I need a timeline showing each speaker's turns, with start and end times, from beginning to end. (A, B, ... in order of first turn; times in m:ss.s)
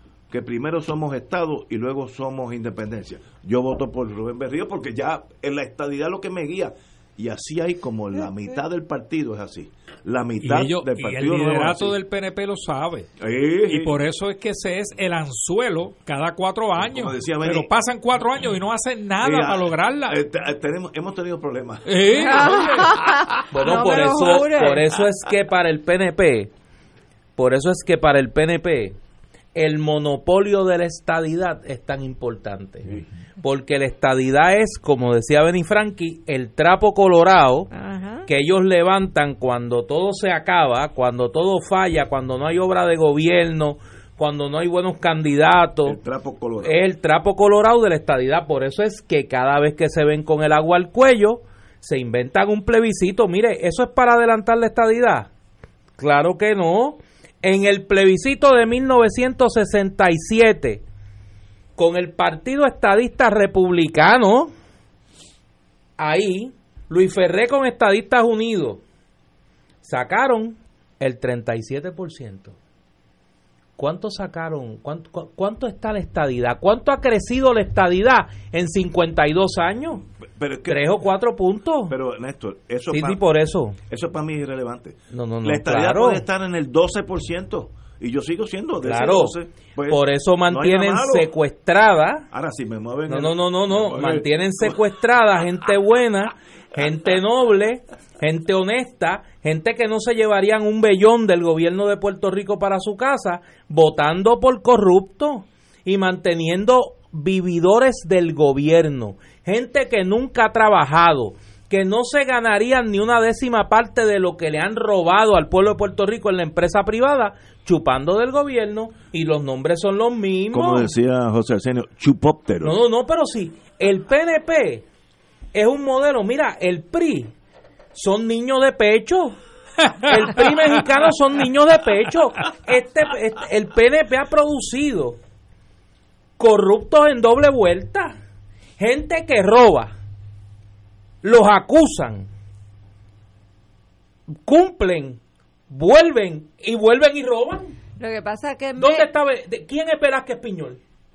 0:00.3-0:12.0 A
0:10.4-0:13.1 B
0:13.2-0:14.0 A
0:13.6-0:20.2 B
0:16.8-0:17.7 A
0:19.2-0:23.0 A
0:21.8-0:22.9 B
0:22.2-0:24.8 C
0:23.5-0:26.5 D
0:27.4-0:29.0 D
0:29.5-0:37.7 D
0:37.7-0:38.3 C
0:38.2-0:46.0 D
0:45.8-0:46.8 A
0:46.6-0:55.3 D
0:56.0-1:00.8 D
1:01.8-1:04.5 D
1:06.0-1:08.8 D
1:09.8-1:12.6 D
1:13.8-1:20.0 D
1:20.2-1:20.9 A
1:20.7-1:21.9 D
1:21.9-1:23.2 A
1:22.9-1:23.8 D
1:23.9-1:31.3 A
1:25.1-1:26.2 D
1:28.8-1:32.3 D
1:32.3-1:34.8 A
1:33.1-2:00.9 D
2:00.5-2:02.8 A
2:02.6-2:04.8 D
2:05.5-2:07.3 D
2:07.9-2:09.4 D
2:10.0-2:15.2 D
2:16.4-2:18.1 D
2:18.8-2:19.9 D
2:21.2-2:22.3 D
2:24.3-2:27.7 D
2:28.0-2:29.1 C
2:28.8-2:30.8 D